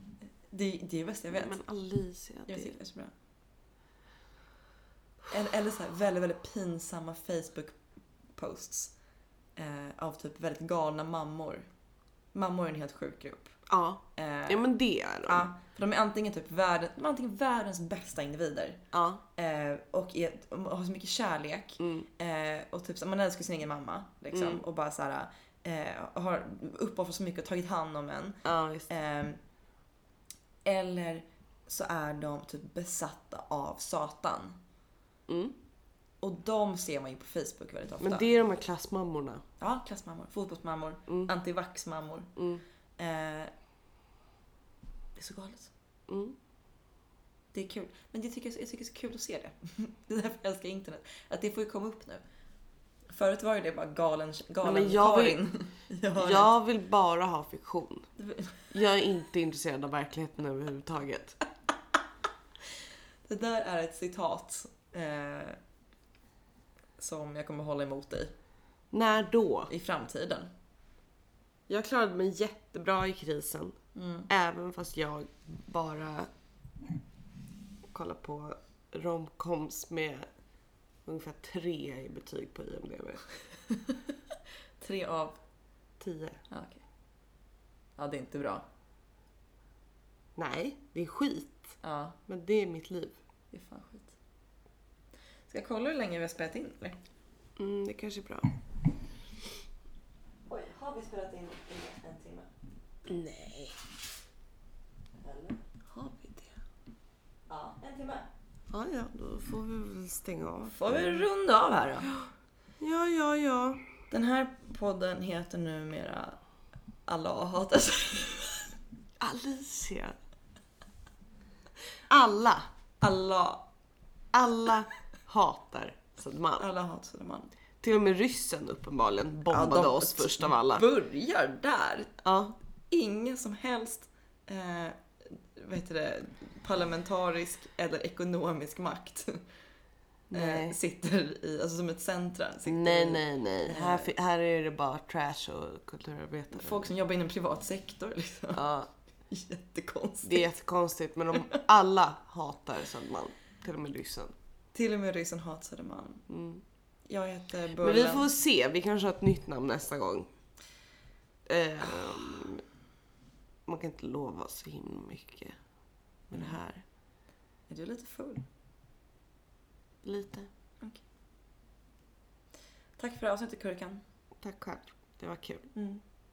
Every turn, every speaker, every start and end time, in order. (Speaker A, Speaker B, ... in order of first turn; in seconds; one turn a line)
Speaker A: 0.5-1.6
Speaker B: 1.3-2.8
Speaker A: 2.5-3.1
Speaker A: 5.3-7.8
Speaker A: 8.3-8.9
Speaker A: 9.6-11.7
Speaker A: 12.3-13.6
Speaker B: 13.7-15.5
Speaker A: 14.2-14.7
Speaker A: 15.2-18.8
Speaker B: 18.9-19.2
Speaker A: 19.4-28.4
Speaker B: 21.8-22.1
Speaker B: 24.3-24.6
Speaker B: 28.4-28.9
Speaker A: 28.9-29.4
Speaker A: 30.6-34.6
Speaker B: 35.3-35.5
Speaker A: 36.2-38.3
Speaker B: 38.0-39.4
Speaker A: 39.6-42.3
Speaker B: 42.4-42.6
Speaker A: 43.0-43.5
Speaker A: 45.1-45.7
Speaker B: 46.1-46.4
Speaker A: 47.5-52.2
Speaker A: 53.1-56.5
Speaker B: 54.6-55.4
Speaker B: 56.2-58.1
Speaker A: 58.2-58.7
Speaker B: 58.7-61.4
Speaker A: 63.3-65.6
Speaker A: 67.0-68.3
Speaker B: 68.9-69.7
Speaker A: 69.7-70.5
Speaker B: 71.7-73.8
Speaker A: 73.9-74.3
Speaker B: 74.3-76.3
Speaker B: 77.9-80.3
Speaker B: 81.0-83.2
Speaker A: 83.7-84.0
Speaker A: 84.8-85.4
Speaker B: 86.0-86.4
Speaker A: 86.5-86.8
Speaker A: 88.0-88.7
Speaker B: 90.3-91.8
Speaker A: 91.8-92.2
Speaker B: 92.3-93.2
Speaker A: 93.5-94.1
Speaker A: 95.5-97.0
Speaker B: 97.6-98.5
Speaker A: 100.5-102.5
Speaker B: 103.1-103.8
Speaker A: 105.2-105.6
Speaker B: 105.9-106.6
Speaker A: 107.5-108.3
Speaker B: 108.7-111.2
Speaker A: 110.7-112.1
Speaker B: 112.8-113.8
Speaker A: 114.1-116.4
Speaker A: 117.1-118.7
Speaker B: 119.2-120.2
Speaker B: 122.1-122.7
Speaker A: 123.0-123.7
Speaker B: 124.3-126.7
Speaker A: 126.6-127.5
Speaker B: 127.8-130.8
Speaker A: 129.5-132.2
Speaker B: 132.2-132.5
Speaker A: 132.9-139.4
Speaker B: 140.3-140.8
Speaker A: 140.3-144.1
Speaker B: 142.6-146.9
Speaker A: 146.5-148.7
Speaker B: 148.5-148.9
Speaker A: 149.3-150.4
Speaker B: 150.2-154.3
Speaker A: 151.3-151.6
Speaker A: 154.7-156.2
Speaker B: 156.3-156.6
Speaker A: 157.1-158.3
Speaker B: 157.8-160.3
Speaker B: 161.4-162.6
Speaker B: 163.7-165.6
Speaker B: 166.3-166.8
Speaker A: 167.7-168.4
Speaker B: 170.0-170.5
Speaker A: 173.0-174.0
Speaker B: 174.4-175.7
Speaker A: 175.7-176.0